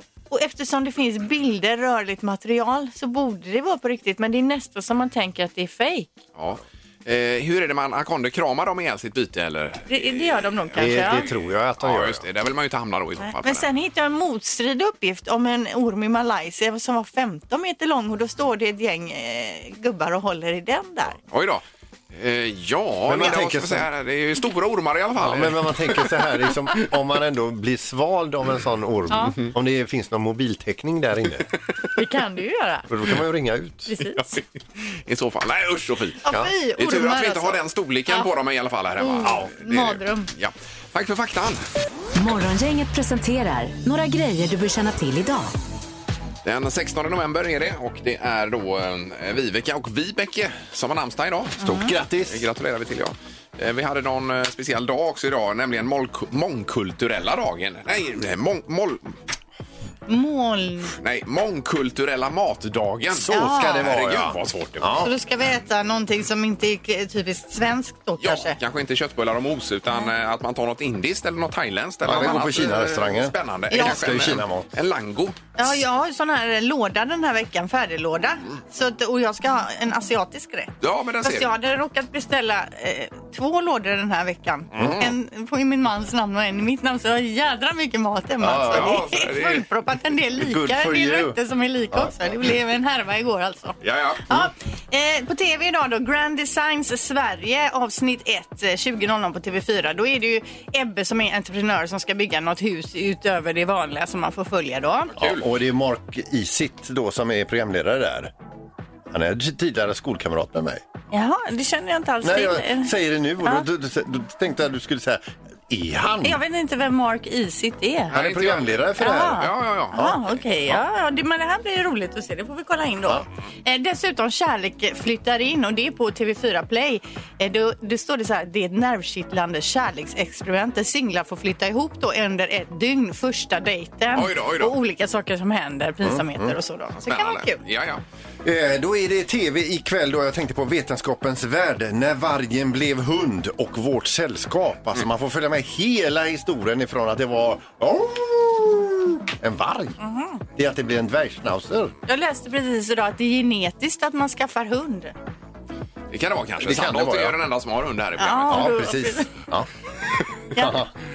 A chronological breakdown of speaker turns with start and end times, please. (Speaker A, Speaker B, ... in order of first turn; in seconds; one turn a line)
Speaker A: 0.3-6.1
Speaker B: 6.4-13.7
Speaker A: 9.9-11.3
Speaker C: 10.8-12.2
Speaker A: 13.2-21.2
Speaker B: 21.3-26.1
Speaker C: 23.1-23.9
Speaker C: 25.2-31.5
Speaker A: 29.1-29.4
Speaker A: 32.0-32.9
Speaker C: 32.9-33.9
Speaker A: 33.9-34.2
Speaker B: 34.1-41.6
Speaker A: 36.2-38.3
Speaker A: 39.0-40.3
Speaker D: 42.1-45.5
Speaker B: 46.4-59.2
Speaker A: 51.6-51.9
Speaker C: 51.7-52.5
Speaker A: 60.1-60.9
Speaker B: 61.0-65.1
Speaker C: 63.2-65.1
Speaker A: 63.2-63.9
Speaker A: 65.0-68.6
Speaker B: 68.2-75.4
Speaker C: 72.0-74.7
Speaker A: 73.7-74.0
Speaker A: 75.6-105.2
Speaker B: 80.8-81.5
Speaker C: 84.8-85.1
Speaker B: 84.8-85.1
Speaker C: 88.4-89.0
Speaker B: 88.7-89.7
Speaker C: 90.4-91.4
Speaker B: 93.8-94.3
Speaker B: 105.2-105.5
Speaker C: 105.2-108.3
Speaker C: 109.1-110.8
Speaker A: 111.1-112.9
Speaker C: 112.2-116.4
Speaker A: 116.2-118.1
Speaker B: 118.1-120.0
Speaker C: 118.1-119.4
Speaker A: 119.0-137.6
Speaker C: 119.9-120.2
Speaker B: 134.1-134.7
Speaker C: 136.0-136.5
Speaker B: 137.1-138.0
Speaker C: 138.4-150.0
Speaker A: 150.0-150.4
Speaker C: 150.6-151.9
Speaker A: 152.1-155.1
Speaker B: 156.1-158.9
Speaker C: 156.6-157.4
Speaker A: 158.2-159.3
Speaker C: 158.5-159.7
Speaker A: 160.6-160.8
Speaker C: 160.6-160.9